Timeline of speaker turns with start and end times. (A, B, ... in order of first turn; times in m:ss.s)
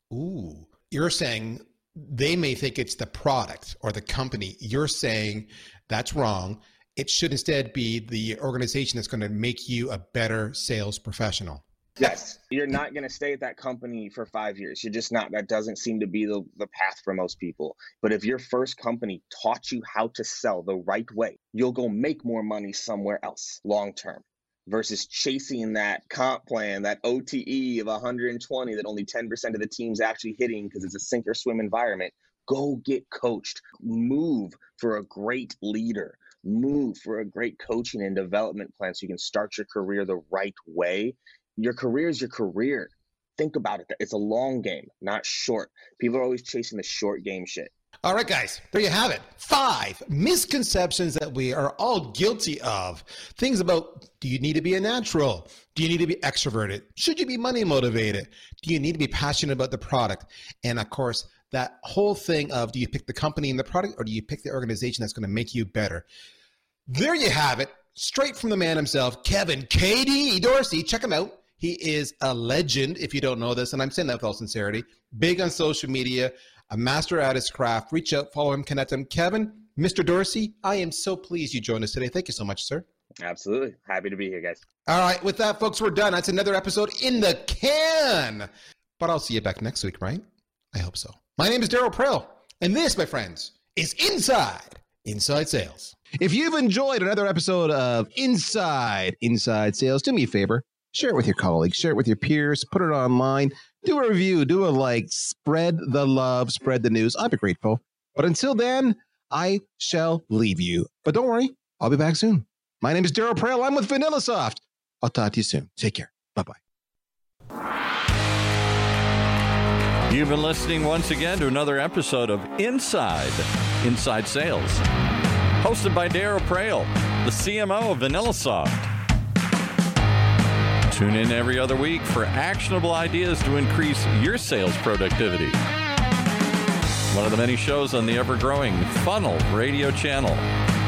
0:00.1-0:11.6 A
0:12.0-0:47.7 B
0:48.0-1:06.1 A
1:06.9-1:22.8 A
1:23.2-1:24.6 B
1:24.8-1:56.6 A
2:00.1-2:04.8 C
2:05.6-2:08.9 C
2:10.9-2:15.6 C
2:17.1-2:20.4 C